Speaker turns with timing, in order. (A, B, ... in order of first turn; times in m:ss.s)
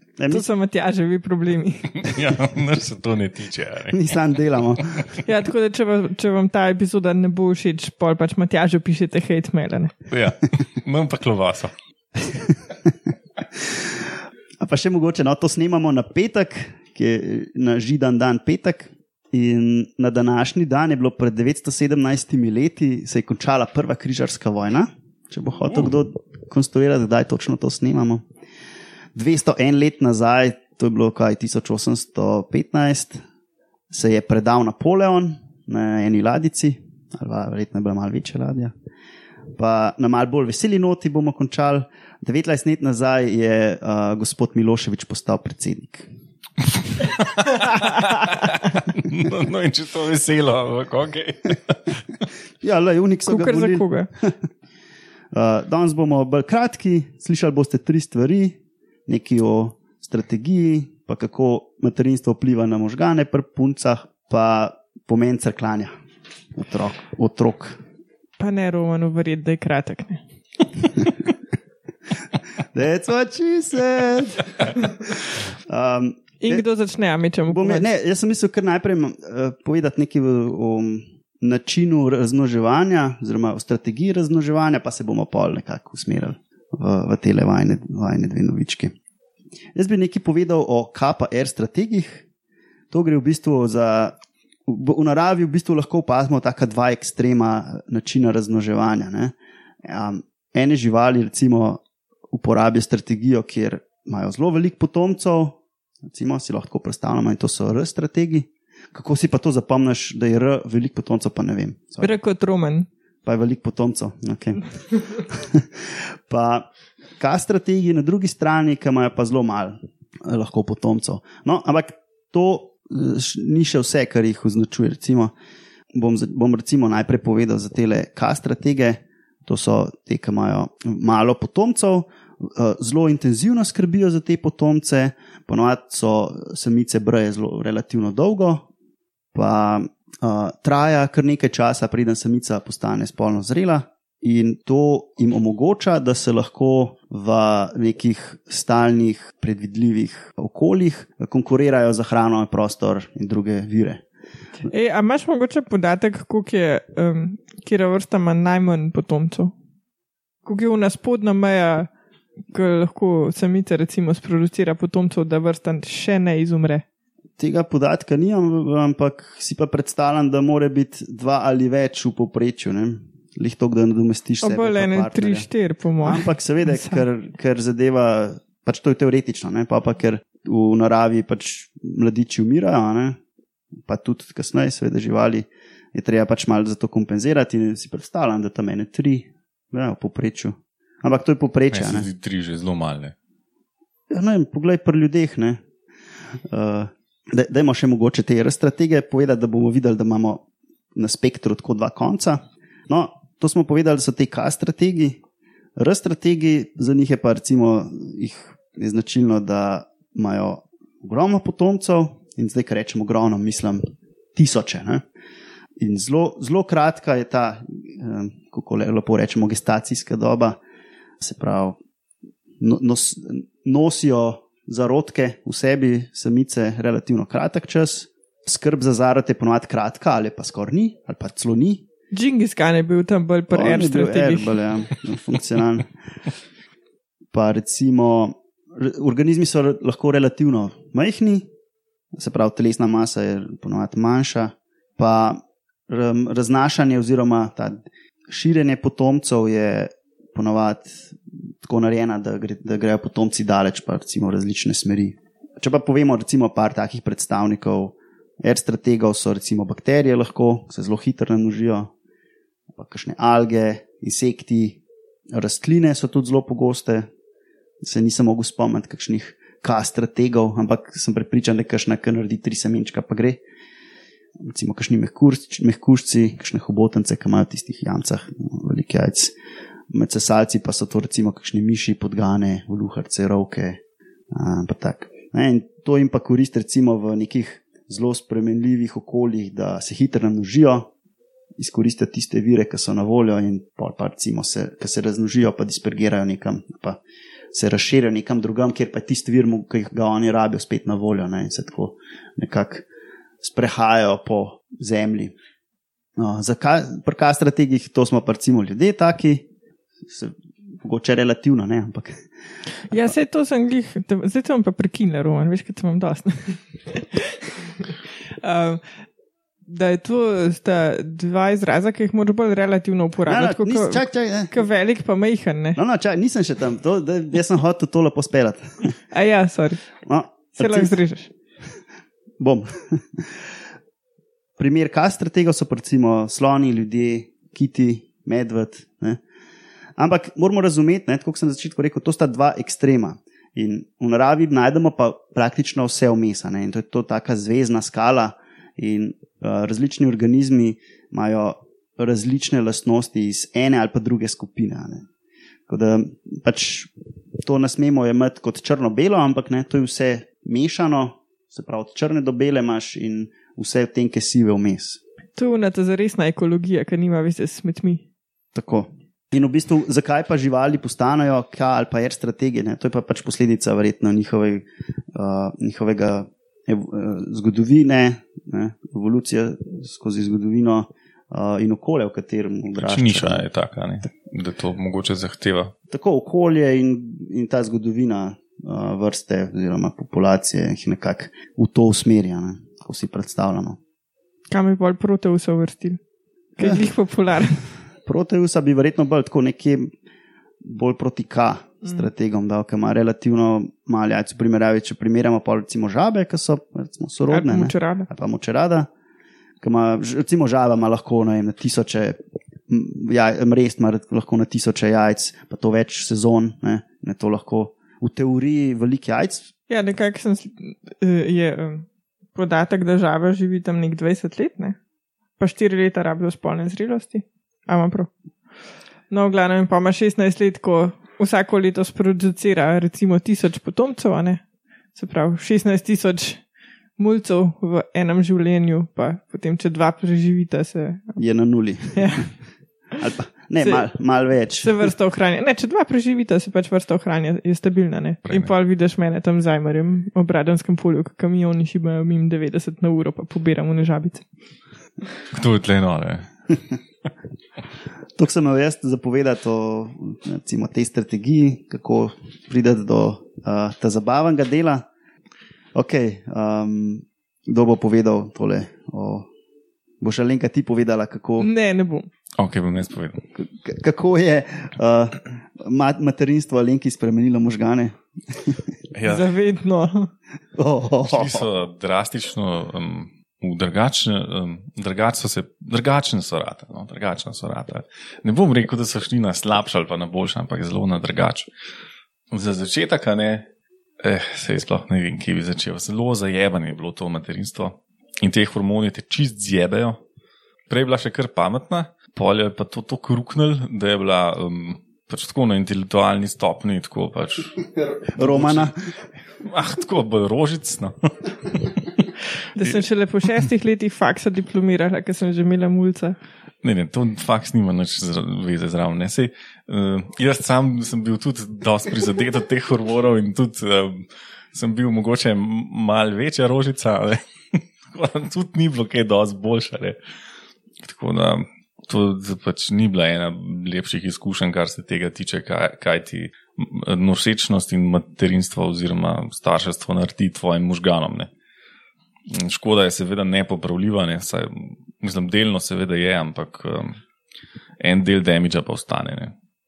0:00.2-0:00.4 A
0:00.3-0:02.2 B
0:02.0-0:04.2 C
0:03.9-0:05.2 A
0:05.2-0:10.0 B
0:10.1-0:11.7 C
0:14.6-0:28.2 A
0:29.2-0:33.2 A
0:33.9-0:38.7 A
0:39.6-0:46.1 A
0:47.0-0:52.2 C
0:52.6-0:54.3 A
0:53.3-0:54.1 B
0:55.3-0:58.6 A
0:59.1-1:05.9 A
1:06.6-1:07.8 A
1:08.4-1:10.2 B
1:12.7-1:16.6 A
1:16.4-1:17.8 B
1:17.5-1:28.9 A
1:29.8-1:32.3 A
1:32.9-1:34.2 A
1:34.7-1:52.1 A
1:52.0-1:52.9 B
1:53.2-1:56.7 A
1:57.2-2:05.3 A
2:05.9-2:18.7 A
2:19.3-2:34.0 A
2:34.6-2:39.5 B
2:40.4-2:41.9 B
2:42.5-2:46.8 B
2:47.4-2:55.5 A
2:54.4-2:57.0 B
2:56.0-3:03.2 A
3:03.9-3:12.1 A
3:11.7-3:13.2 C
3:14.1-3:15.6 A
3:16.5-3:20.4 A
3:20.9-3:25.2 A
3:25.8-3:33.8 A
3:34.4-3:35.0 A
3:35.8-3:40.6 A
3:41.2-3:41.8 A
3:42.6-3:51.8 A
3:52.1-3:54.6 B
3:53.5-3:55.9 A
3:57.3-4:01.4 A
4:02.1-4:21.9 A
4:22.7-4:24.8 A
4:25.3-4:27.1 A
4:27.8-4:33.4 A
4:34.4-4:39.3 A
4:39.9-4:43.8 A
4:44.3-4:50.9 A
4:51.6-4:57.0 A
4:57.5-5:02.8 A
5:03.4-5:05.3 A
5:06.2-5:09.4 A
5:10.1-5:12.2 A
5:12.9-5:18.8 B
5:19.7-5:25.8 B
5:23.3-5:24.5 A
5:25.8-5:28.9 A
5:29.1-5:29.8 B
5:30.1-5:30.9 A
5:30.5-5:31.3 B
5:32.4-5:33.5 A
5:34.6-5:39.2 A
5:40.0-5:55.1 A
5:55.7-5:56.9 A
5:57.4-6:05.0 A
6:05.4-6:08.0 B
6:08.5-6:23.4 A
6:22.8-6:25.7 C
6:25.9-6:33.8 A
6:34.5-6:36.0 B
6:36.6-6:37.6 B
6:36.6-6:36.9 A
6:38.0-6:39.9 A
6:40.6-6:48.9 A
6:47.3-6:48.1 B
6:49.6-6:59.5 A
6:59.7-7:04.8 B
7:05.4-7:08.1 B
7:09.1-7:14.4 B
7:14.9-7:16.4 B
7:17.0-7:21.2 B
7:21.2-7:22.2 A
7:21.9-7:22.3 B
7:23.0-7:24.9 A
7:24.6-7:34.2 B
7:28.3-7:28.5 C
7:35.3-7:36.3 C
7:38.2-7:44.8 A
7:45.8-7:49.3 A
7:50.0-7:51.5 A
7:51.4-7:52.1 B
7:52.4-7:53.2 C
7:53.3-7:58.6 A
7:58.9-7:59.3 C
7:59.0-8:00.1 B
8:00.6-8:01.4 A
8:01.0-8:11.5 C
8:12.3-8:13.5 C
8:14.0-8:20.0 C
8:20.7-8:27.6 C
8:27.8-8:28.8 A
8:28.2-8:28.7 C
8:29.4-8:31.9 C
8:32.6-8:36.2 B
8:36.6-8:50.0 C
8:50.8-9:01.3 C
9:02.3-9:07.0 C
9:07.8-9:09.4 C